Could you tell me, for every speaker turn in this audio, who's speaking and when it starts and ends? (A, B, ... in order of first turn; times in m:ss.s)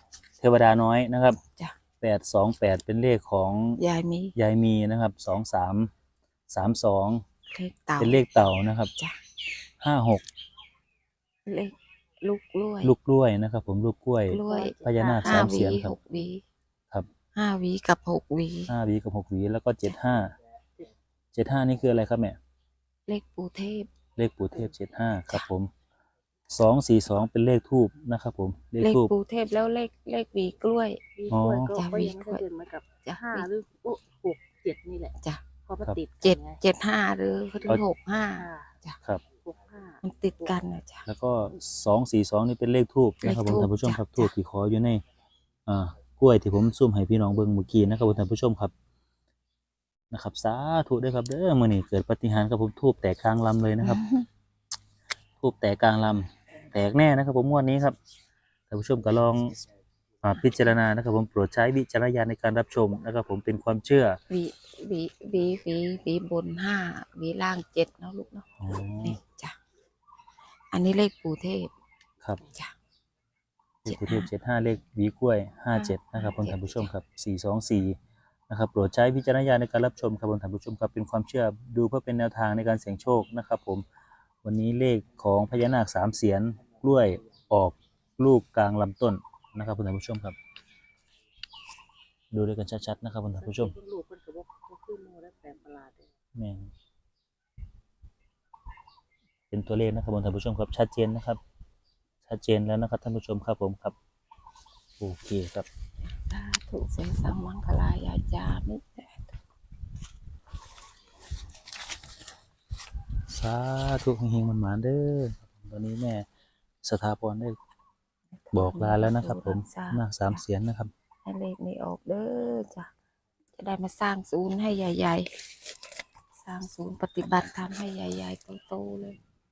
0:00.4-0:01.4 A
0:02.0-0:03.8 A
0:03.8-0:04.3 B
0:04.4-0:05.9 A
0:06.5-0:07.2 A
0:07.5-0:08.3 B
0:08.0-0:08.9 A
0:09.8-0:10.2 A
0:11.4-0:12.9 B
0:12.8-0:15.9 A
0:14.3-0:16.4 B
0:14.4-0:15.7 C
0:17.3-0:18.7 B
0:18.7-0:20.3 A
0:21.3-0:22.4 A
0:23.1-0:23.9 B
0:24.2-0:25.7 A
0:26.5-0:29.1 A
0:28.8-0:31.0 B
0:31.2-0:35.1 C
0:31.3-0:31.8 A
0:31.7-0:32.4 B
0:33.0-0:33.5 B
0:35.7-0:36.6 C
0:36.2-0:39.0 B
0:38.2-0:38.7 C
0:39.4-0:40.0 C
0:40.0-0:41.0 B
0:41.0-0:45.0 A
0:43.2-0:44.3 B
0:45.7-0:48.7 A
0:50.1-0:54.0 A
0:53.8-0:54.3 B
0:55.4-0:58.0 A
0:58.7-0:59.6 A
1:00.2-1:04.2 A
1:04.3-1:08.5 B
1:08.6-1:09.2 A
1:09.0-1:09.6 B
1:10.7-1:11.7 B
1:13.8-1:18.0 A
1:13.9-1:14.3 B
1:15.7-1:16.9 B
1:18.5-1:23.8 A
1:24.4-1:30.4 A
1:32.3-1:33.8 A
1:33.4-1:36.1 C
1:36.3-1:36.7 A
1:39.5-1:41.4 A
1:42.3-1:43.9 A
1:45.0-1:45.7 A
1:46.0-1:49.3 B
1:53.3-1:56.2 A
1:56.8-1:57.6 A
1:58.3-2:00.4 B
1:58.5-2:00.9 A
2:01.2-2:02.9 B
2:03.6-2:05.3 B
2:06.4-2:09.2 B